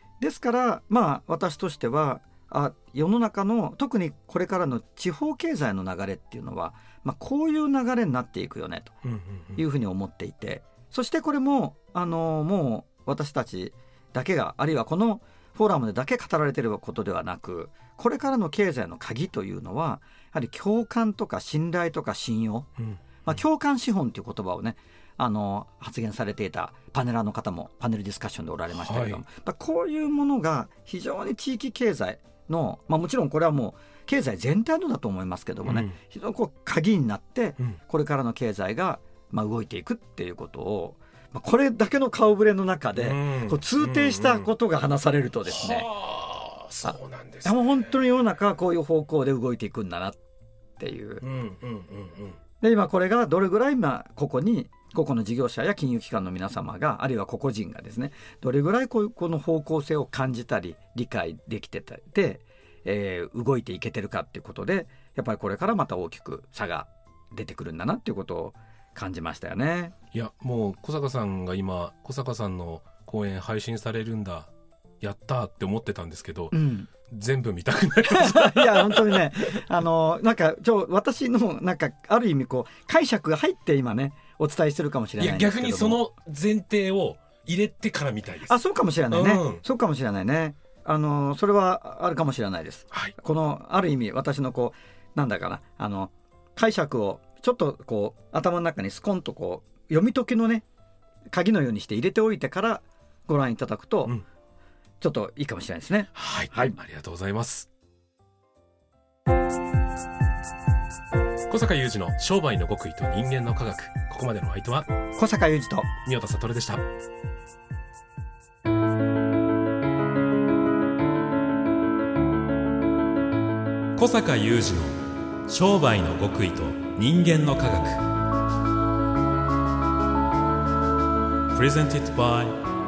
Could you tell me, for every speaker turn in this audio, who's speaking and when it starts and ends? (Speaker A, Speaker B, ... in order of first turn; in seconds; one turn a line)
Speaker A: 0.2-8.9
Speaker B: 9.0-9.6
Speaker A: 9.6-22.7
Speaker B: 22.8-23.3
Speaker A: 23.2-45.9
Speaker B: 28.7-29.2
Speaker B: 35.6-35.9
Speaker B: 42.9-44.5
Speaker B: 45.4-48.0
Speaker A: 46.8-50.2
Speaker A: 50.8-51.2
Speaker B: 51.2-52.4
Speaker A: 52.6-69.9
Speaker B: 70.1-76.5
Speaker A: 76.5-76.9
Speaker B: 77.1-79.6
Speaker A: 78.0-86.0
Speaker B: 85.2-88.6
Speaker A: 88.4-100.6
Speaker B: 89.1-89.6
Speaker A: 101.3-104.2
Speaker A: 105.0-106.7
Speaker B: 106.1-107.7
Speaker B: 111.5-114.9
Speaker A: 115.2-115.9
Speaker B: 116.0-116.8
Speaker C: 124.0-128.0
Speaker C: 131.5-132.6